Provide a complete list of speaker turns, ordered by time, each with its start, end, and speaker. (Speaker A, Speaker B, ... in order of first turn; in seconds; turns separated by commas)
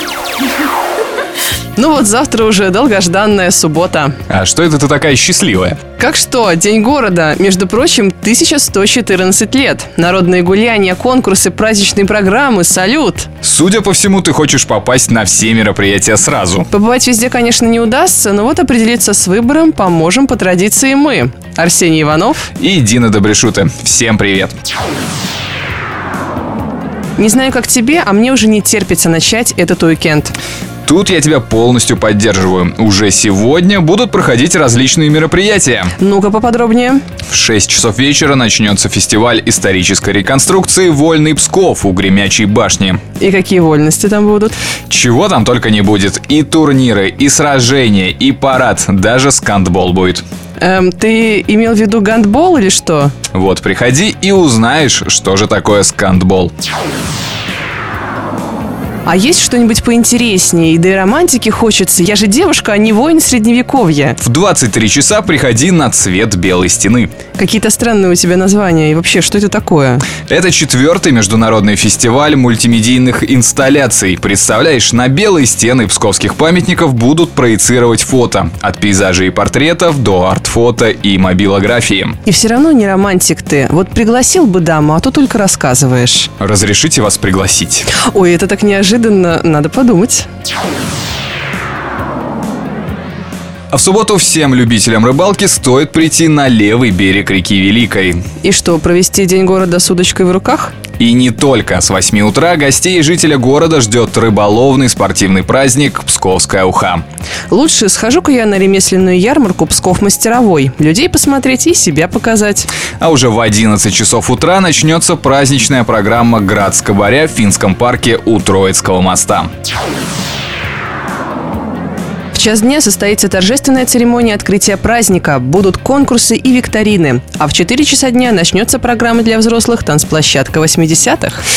Speaker A: 1.8-4.2, Speaker B: 4.3-5.8, Speaker A: 6.0-13.3, Speaker B: 13.4-16.7, Speaker A: 16.7-22.5, Speaker B: 22.6-24.5, Speaker A: 27.2-30.3, Speaker B: 30.9-35.9, Speaker A: 36.0-37.0, Speaker B: 37.3-43.0, Speaker A: 43.2-44.6, Speaker B: 44.9-50.2, Speaker A: 50.6-53.1, Speaker B: 53.3-56.5, Speaker A: 59.0-64.2, Speaker B: 64.2-67.1, Speaker A: 67.4-70.1, Speaker B: 70.3-82.2, Speaker A: 82.2-86.3, Speaker B: 86.4-87.9, Speaker A: 87.9-90.3, Speaker B: 93.7-98.2, Speaker A: 98.4-100.8, Speaker B: 101.0-107.0, Speaker A: 107.5-112.7, Speaker B: 113.0-119.5, Speaker A: 122.3-131.4